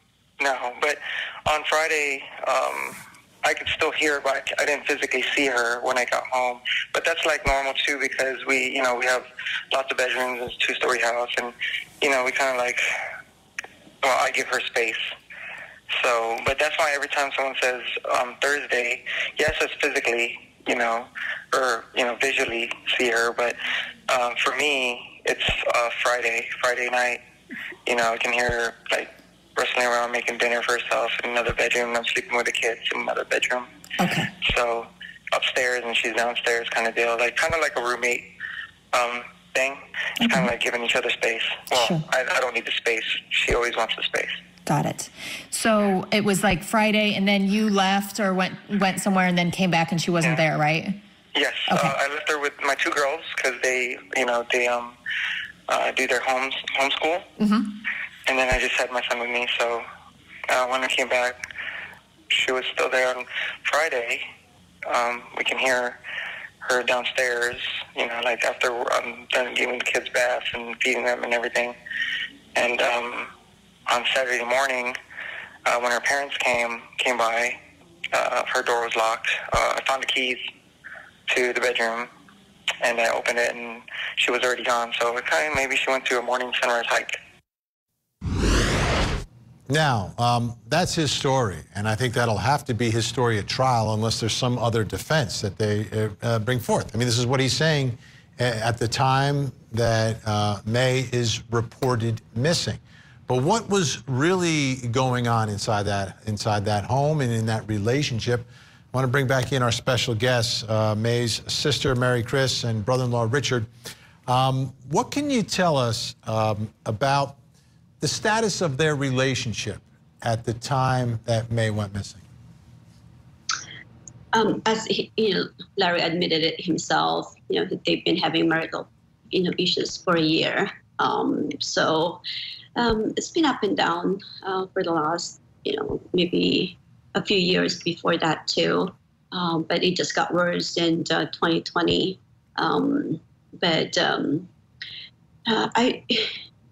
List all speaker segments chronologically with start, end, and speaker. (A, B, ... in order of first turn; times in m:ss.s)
0:00.4-0:12.8 A
0:14.0-0:15.0 A
0:15.9-0:23.6 A
0:24.1-0:27.2 A
0:27.9-0:33.7 A
0:34.0-0:34.3 B
0:34.4-0:38.3 A
0:38.9-0:44.4 A
0:40.2-0:40.5 B
0:41.7-0:42.0 B
0:44.6-0:51.0 B
0:51.4-0:55.0 A
0:51.7-0:51.9 B
0:55.7-0:57.3 A
0:57.4-0:57.7 B
0:58.3-0:59.8 A
1:00.5-1:01.4 A
1:02.3-1:04.2 A
1:04.9-1:06.0 A
1:06.6-1:11.8 A
1:12.6-1:13.3 A
1:13.9-1:15.0 A
1:15.7-1:17.6 A
1:18.1-1:20.4 A
1:21.3-1:22.1 A
1:22.8-1:27.2 A
1:29.7-1:53.7 C
1:54.3-1:57.4 C
1:58.0-2:02.2 C
2:04.3-2:12.2 D
2:12.8-2:24.5 D
2:25.5-2:26.3 D